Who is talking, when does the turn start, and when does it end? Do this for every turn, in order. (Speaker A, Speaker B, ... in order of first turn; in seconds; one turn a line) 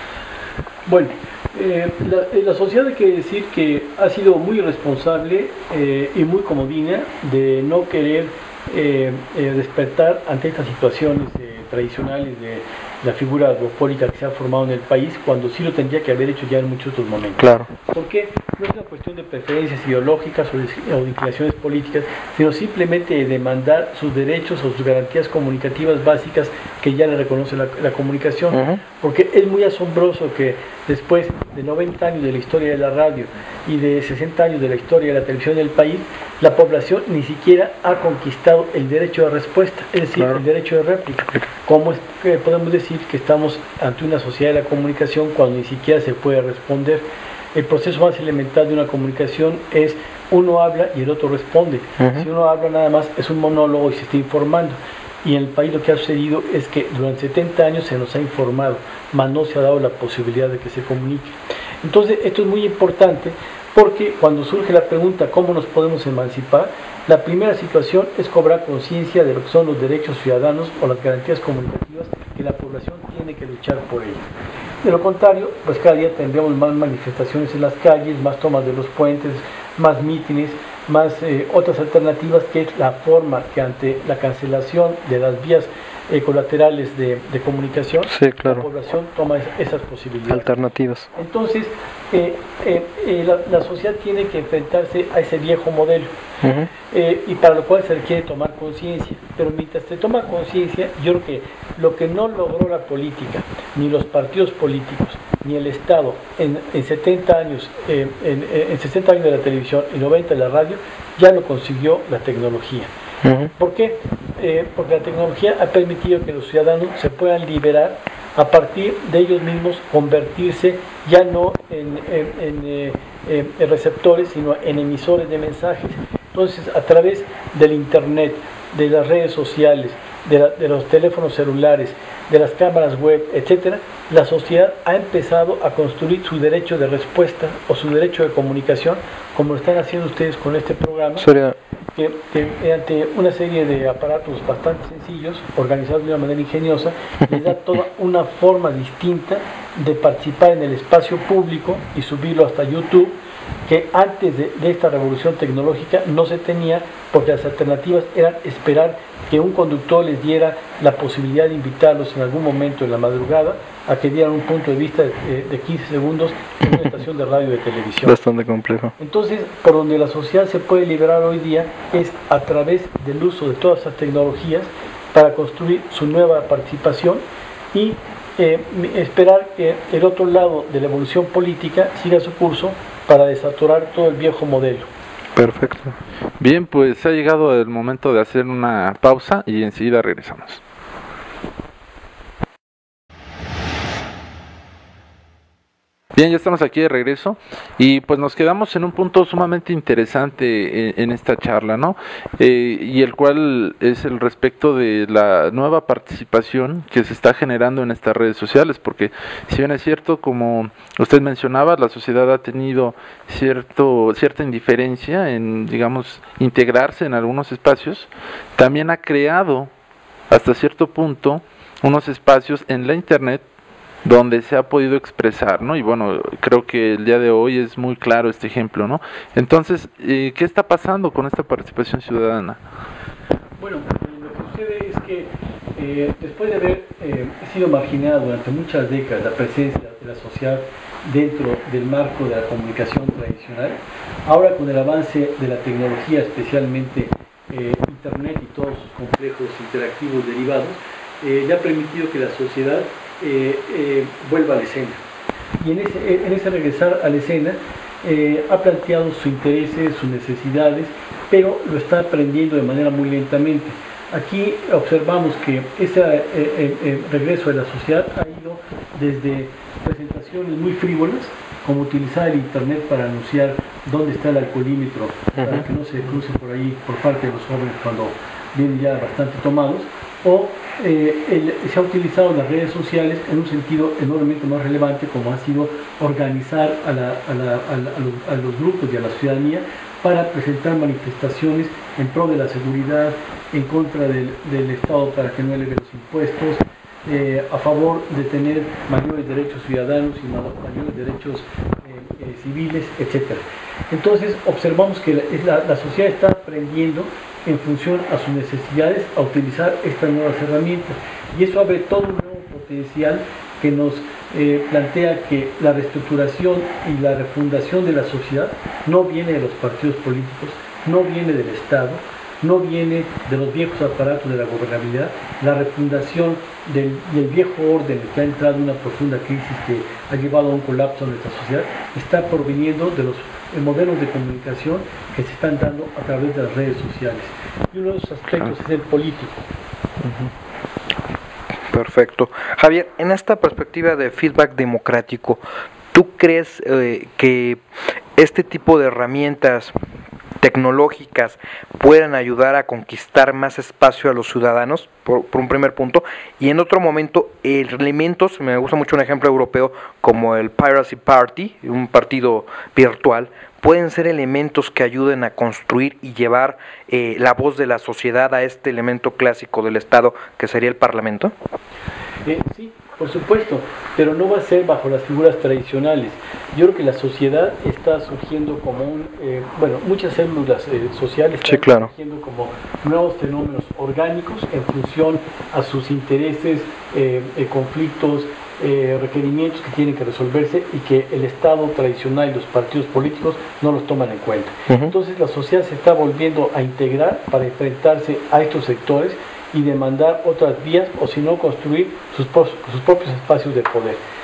Speaker A: 0.9-74.2
Speaker B: 17.4-17.7
Speaker B: 28.5-28.8
Speaker B: 52.0-52.2
Speaker A: 74.8-90.5
Speaker B: 88.1-88.7
Speaker B: 90.3-91.1
Speaker A: 91.2-96.1
Speaker B: 96.4-96.7
Speaker A: 96.9-112.9
Speaker B: 113.2-113.5
Speaker A: 113.6-141.3
Speaker B: 141.2-141.6
Speaker A: 141.9-168.2
Speaker B: 168.0-168.9
Speaker A: 169.0-184.9
Speaker B: 185.4-186.0
Speaker C: 186.4-190.6
Speaker C: 196.1-219.7
Speaker C: 220.3-223.4
Speaker C: 224.0-232.6
Speaker A: 233.6-255.0
Speaker A: 255.6-339.4
Speaker B: 275.4-275.6
Speaker B: 341.7-345.4
Speaker B: 345.9-347.6
Speaker B: 348.2-349.7
Speaker B: 350.4-371.3
Speaker A: 372.2-404.0
Speaker B: 381.4-381.9